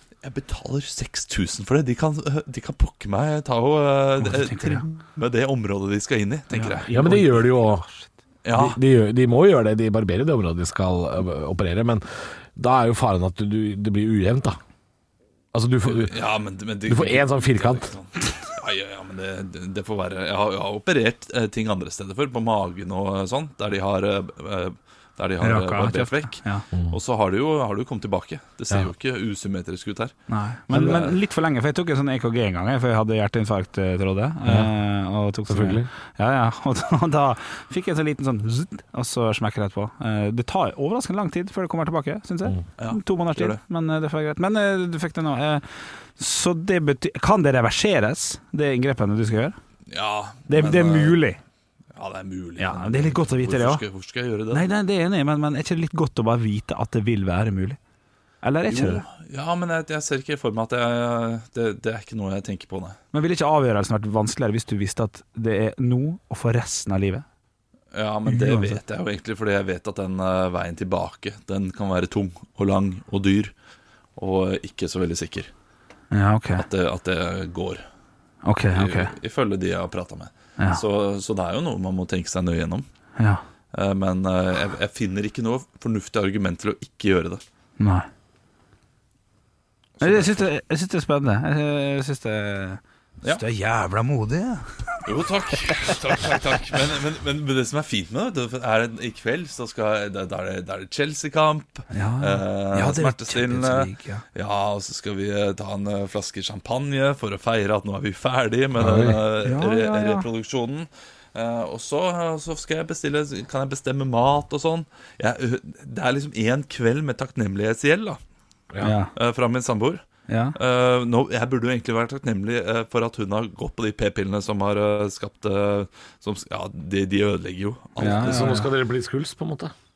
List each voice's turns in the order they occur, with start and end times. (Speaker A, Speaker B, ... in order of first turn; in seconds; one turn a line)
Speaker A: 0.2-6.9
Speaker B: 4.2-4.8
Speaker B: 6.5-8.1
Speaker C: 6.9-7.9
Speaker A: 8.4-8.8
Speaker C: 8.5-14.6
Speaker C: 15.5-16.1
Speaker A: 15.8-30.1
Speaker C: 16.9-17.9
Speaker B: 25.4-26.6
Speaker B: 30.3-45.6
Speaker A: 30.7-31.1
Speaker C: 30.7-31.0
Speaker C: 35.5-35.9
Speaker A: 42.8-43.6
Speaker B: 46.2-49.6
Speaker A: 49.9-51.2
Speaker B: 50.5-51.4
Speaker A: 51.9-54.6
Speaker B: 52.6-53.8
Speaker B: 54.5-57.8
Speaker B: 58.4-59.0
Speaker A: 58.7-63.0
Speaker B: 63.1-67.2
Speaker A: 67.9-73.5
Speaker B: 68.2-68.8
Speaker A: 74.2-75.5
Speaker B: 76.1-76.6
Speaker A: 76.5-77.8
Speaker B: 78.4-79.1
Speaker A: 78.7-82.9
Speaker A: 83.7-87.4
Speaker B: 87.8-88.1
Speaker A: 90.0-90.5
Speaker B: 90.0-95.0
Speaker A: 95.0-118.2
Speaker B: 101.9-104.2
Speaker C: 108.8-109.2
Speaker B: 109.4-110.3
Speaker B: 118.8-119.1
Speaker A: 119.1-120.0
Speaker B: 120.3-120.5
Speaker A: 120.5-128.5
Speaker B: 128.0-128.7
Speaker C: 128.0-129.7